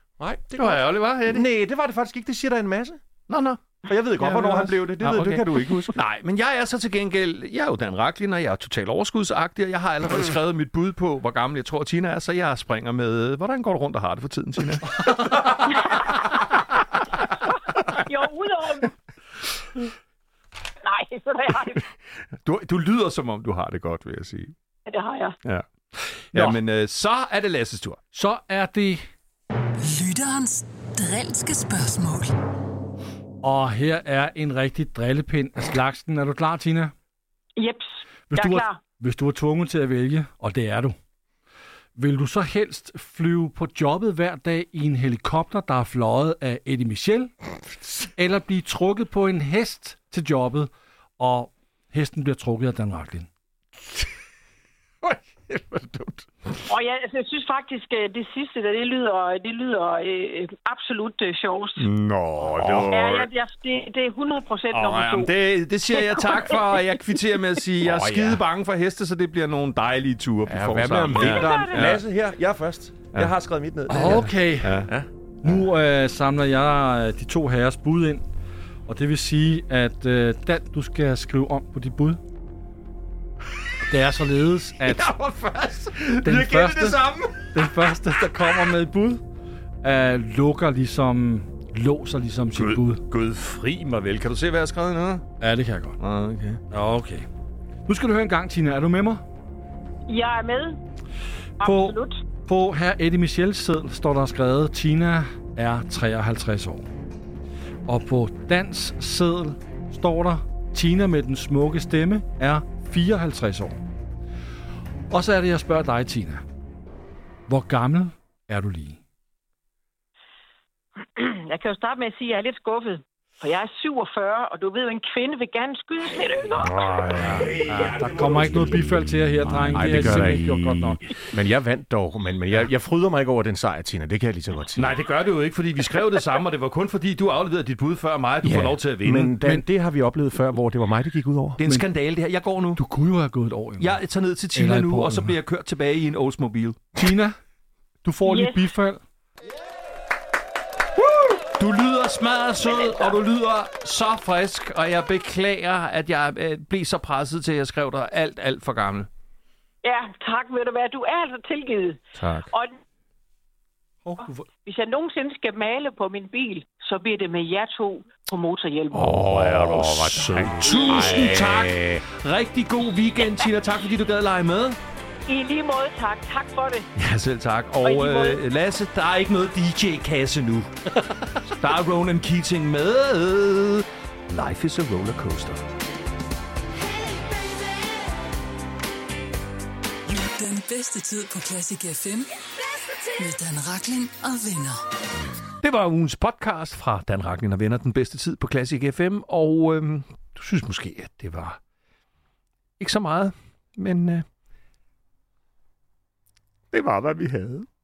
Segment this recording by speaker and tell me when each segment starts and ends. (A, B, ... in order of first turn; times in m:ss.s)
0:00.2-0:03.0 A
0:00.6-0:01.5 B
0:03.3-0:16.1 B
0:03.8-0:06.0 A
0:15.6-0:16.5 C
0:17.3-0:19.0 C
0:20.8-0:21.9 C
0:22.4-0:24.5 B
0:24.9-0:25.4 C
0:25.4-0:28.0 B
0:28.1-0:29.0 D
0:29.8-0:32.3 E
0:33.4-0:36.9 D
0:37.6-0:38.8 C
0:38.3-0:41.0 D
0:42.0-0:47.3 D
0:48.0-0:53.3 D
0:55.0-0:56.3 A
0:56.7-1:01.9 C
1:01.8-1:03.3 B
1:02.5-1:03.1 A
1:02.9-1:05.3 C
1:04.7-1:12.0 B
1:05.9-1:06.9 C
1:07.8-1:08.4 A
1:10.5-1:14.3 A
1:11.3-1:11.8 C
1:13.9-1:14.9 B
1:13.9-1:14.8 D
1:14.8-1:15.6 A
1:15.4-1:18.2 D
1:18.9-1:22.2 D
1:23.9-1:25.1 D
1:24.8-1:27.5 B
1:26.2-1:29.2 D
1:29.8-1:33.0 D
1:32.6-1:35.3 B
1:35.4-1:36.0 D
1:36.0-1:36.6 B
1:36.7-1:37.3 D
1:37.9-1:39.2 D
1:40.1-1:40.8 C
1:41.6-1:42.2 C
1:41.6-1:46.9 D
1:47.9-1:53.8 D
1:55.1-1:56.4 D
1:57.5-1:59.0 D
2:01.0-2:07.0 C
2:06.6-2:15.0 A
2:07.1-2:11.0 D
2:14.8-2:19.5 B
2:18.4-2:21.6 A
2:21.6-2:22.8 B
2:22.8-2:24.0 D
2:23.8-2:26.9 B
2:24.6-2:25.4 D
2:27.0-2:27.4 D
2:28.0-2:29.0 D
2:28.3-2:28.7 C
2:31.0-2:39.1 B
2:39.8-2:42.8 C
2:42.2-2:42.5 B
2:44.0-2:44.5 D
2:44.6-2:49.2 C
2:48.9-2:52.0 A
2:48.9-2:54.8 B
2:50.7-2:51.1 C
2:55.3-2:56.9 C
2:57.0-3:00.7 B
2:57.8-2:58.4 C
3:01.4-3:05.6 B
3:06.8-3:08.2 E
3:10.1-3:14.9 E
3:15.6-3:21.6 B
3:22.8-3:24.2 B
3:26.7-3:27.7 B